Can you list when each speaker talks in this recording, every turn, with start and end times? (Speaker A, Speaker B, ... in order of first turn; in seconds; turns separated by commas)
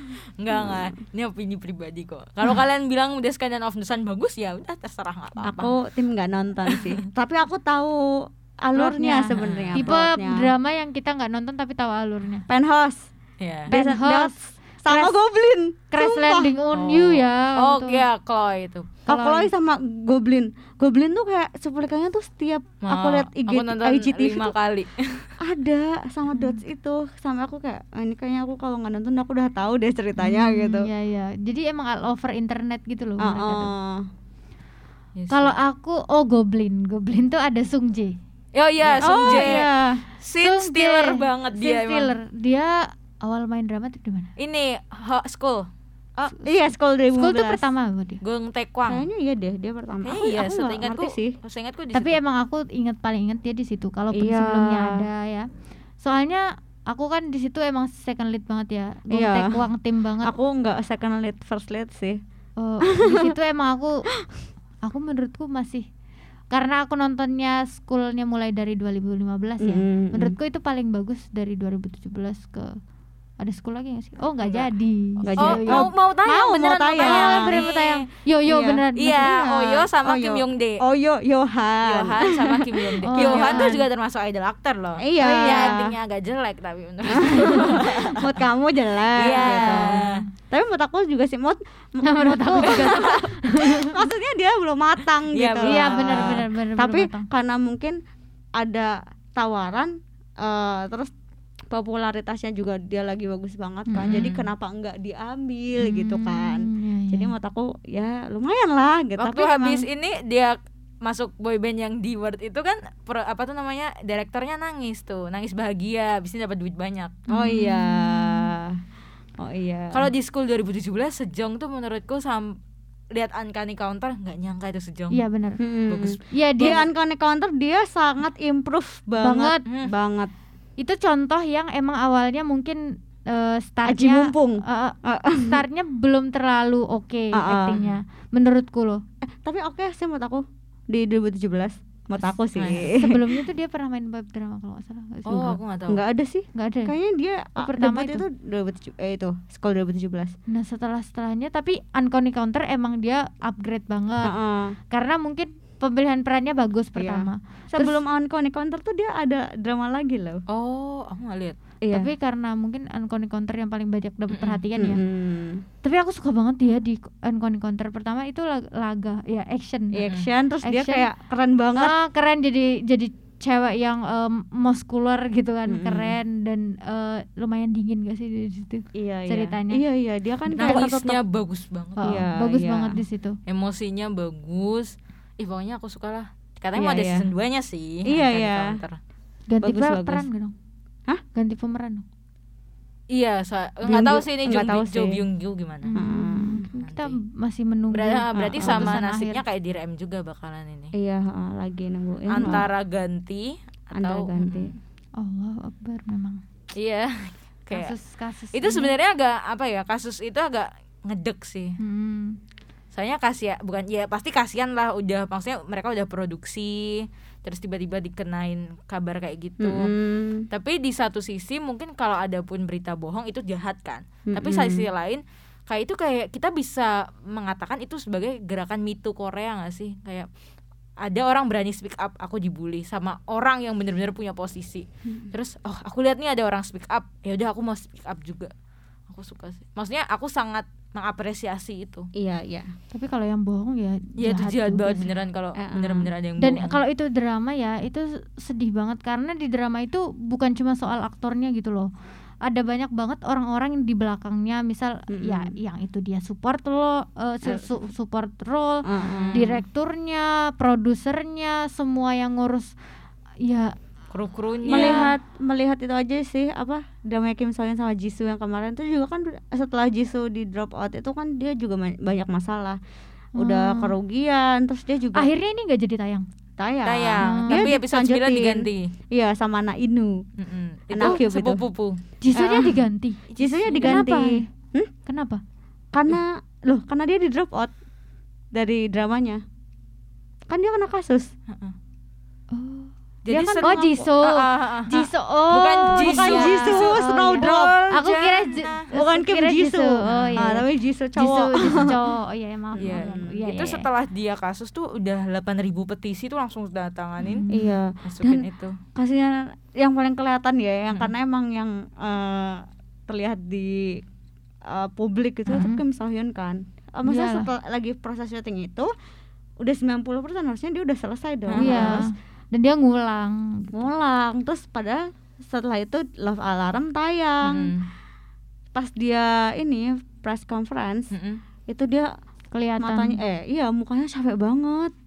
Speaker A: 0.4-5.7, Speaker B: 5.4-10.5, Speaker A: 6.7-7.0, Speaker C: 8.7-12.4, Speaker A: 9.4-9.9, Speaker B: 12.5-13.1, Speaker A: 13.4-13.7, Speaker B: 13.7-16.5, Speaker C: 13.7-14.3, Speaker C: 14.9-15.1, Speaker C: 15.9-18.0, Speaker A: 16.7-18.9, Speaker C: 19.1-19.5, Speaker B: 19.1-24.5, Speaker A: 22.8-25.3, Speaker B: 25.4-30.9, Speaker C: 26.3-26.6, Speaker C: 30.2-33.7, Speaker B: 33.2-34.1, Speaker A: 35.1-35.6, Speaker C: 35.3-38.1, Speaker A: 38.5-39.7, Speaker C: 38.8-39.6, Speaker B: 39.0-40.0, Speaker A: 40.2-42.1, Speaker C: 40.4-44.3, Speaker A: 44.4-45.7, Speaker B: 46.2-47.6, Speaker C: 46.3-46.6, Speaker C: 47.1-48.2, Speaker A: 48.2-49.0, Speaker B: 48.9-51.4, Speaker A: 50.0-52.2, Speaker C: 51.9-55.5, Speaker B: 54.1-55.0, Speaker C: 56.0-60.3, Speaker B: 59.1-59.6, Speaker B: 60.2-62.2, Speaker C: 62.6-64.0, Speaker B: 62.9-63.4, Speaker C: 64.8-65.9, Speaker C: 66.5-72.8, Speaker B: 69.6-70.3, Speaker C: 73.4-75.9, Speaker A: 74.4-74.7, Speaker B: 75.2-77.5, Speaker A: 75.4-78.0, Speaker C: 77.0-79.2, Speaker B: 78.5-83.8, Speaker A: 78.9-80.8, Speaker A: 81.8-88.3, Speaker C: 83.0-83.8, Speaker B: 85.0-86.0, Speaker C: 85.2-85.8, Speaker B: 87.1-98.0, Speaker C: 87.4-87.7, Speaker A: 89.2-90.2, Speaker C: 89.3-90.2, Speaker C: 92.0-94.0, Speaker A: 92.6-93.2, Speaker A: 95.3-96.4, Speaker C: 95.6-97.3, Speaker B: 98.6-101.1, Speaker B: 101.7-109.8, Speaker C: 103.9-104.3, Speaker A: 104.0-104.5, Speaker C: 105.8-107.3, Speaker A: 109.2-117.2, Speaker C: 117.3-118.5, Speaker B: 117.3-118.8, Speaker B: 119.4-120.1, Speaker A: 119.9-122.5, Speaker A: 123.1-125.2, Speaker C: 125.1-125.6, Speaker B: 125.6-130.3, Speaker A: 125.9-126.7, Speaker C: 126.3-126.8, Speaker C: 129.2-129.6, Speaker A: 129.7-129.9, Speaker C: 130.8-139.0, Speaker B: 133.8-135.6, Speaker B: 137.3-137.8, Speaker B: 139.2-143.3, Speaker A: 142.5-142.9, Speaker C: 142.9-145.6, Speaker A: 145.2-146.0, Speaker B: 145.9-150.3, Speaker C: 146.6-146.9, Speaker C: 147.6-148.2, Speaker C: 150.5-154.3, Speaker B: 154.2-154.8, Speaker C: 154.9-158.0, Speaker B: 156.9-160.4, Speaker A: 160.5-161.6, Speaker B: 161.8-162.1, Speaker C: 161.9-165.0, Speaker A: 164.3-164.6, Speaker B: 164.8-165.6, Speaker C: 165.8-170.0, Speaker B: 169.9-171.9, Speaker C: 170.6-171.1, Speaker C: 171.8-179.8, Speaker B: 175.7-176.1, Speaker B: 178.9-181.2, Speaker A: 180.6-182.1, Speaker C: 182.0-183.4, Speaker B: 182.0-183.0, Speaker A: 183.5-189.0, Speaker B: 186.7-187.3, Speaker B: 188.1-188.8, Speaker C: 189.5-190.5, Speaker B: 189.6-190.3, Speaker C: 191.3-192.0, Speaker A: 193.1-195.9, Speaker B: 193.8-195.2, Speaker C: 195.8-199.4, Speaker B: 195.9-196.6, Speaker A: 196.8-197.2, Speaker A: 197.9-200.9, Speaker B: 198.4-198.9, Speaker B: 200.9-202.7, Speaker A: 202.3-204.7, Speaker B: 203.9-204.7, Speaker C: 205.2-206.4, Speaker A: 206.7-207.9, Speaker C: 207.7-208.9, Speaker A: 208.5-211.8, Speaker C: 211.8-212.4, Speaker A: 212.9-219.9, Speaker B: 219.6-220.5, Speaker A: 220.5-230.3, Speaker B: 224.3-224.9, Speaker A: 231.0-238.5, Speaker A: 239.1-242.1, Speaker B: 242.1-242.7, Speaker C: 242.9-245.1, Speaker A: 244.2-246.8, Speaker B: 245.6-246.1, Speaker C: 246.4-251.9, Speaker C: 252.4-262.7, Speaker B: 255.1-255.5, Speaker B: 258.9-259.4, Speaker A: 259.1-259.6, Speaker C: 263.4-263.7, Speaker A: 264.1-265.1, Speaker B: 264.7-272.8, Speaker C: 264.7-265.1, Speaker C: 273.4-273.9, Speaker B: 273.4-275.3, Speaker C: 275.1-276.2, Speaker B: 276.6-280.2, Speaker A: 276.8-278.9, Speaker C: 277.2-277.6, Speaker A: 280.4-282.0, Speaker B: 280.9-281.6, Speaker C: 282.2-283.2, Speaker B: 282.3-282.8, Speaker A: 283.3-284.0, Speaker B: 283.4-284.9, Speaker C: 283.7-284.4, Speaker C: 285.1-285.4, Speaker B: 285.9-287.7, Speaker B: 288.5-289.4, Speaker B: 290.5-291.3, Speaker A: 291.5-291.7, Speaker C: 292.5-300.6, Speaker A: 293.2-298.8, Speaker B: 295.8-297.8, Speaker B: 298.9-301.9, Speaker A: 300.1-300.6, Speaker C: 301.1-303.9, Speaker A: 301.6-301.9, Speaker B: 302.8-303.3, Speaker A: 302.8-307.4, Speaker C: 307.2-307.7, Speaker B: 307.5-314.0, Speaker A: 308.0-308.8, Speaker B: 314.6-318.9, Speaker C: 315.5-315.8, Speaker C: 317.0-317.5, Speaker B: 319.6-322.0, Speaker A: 321.5-322.0, Speaker C: 321.6-323.7, Speaker B: 323.7-327.7, Speaker A: 327.4-327.9, Speaker B: 328.7-331.1, Speaker A: 331.1-331.4, Speaker B: 331.7-332.1, Speaker C: 332.5-333.2, Speaker B: 332.8-334.9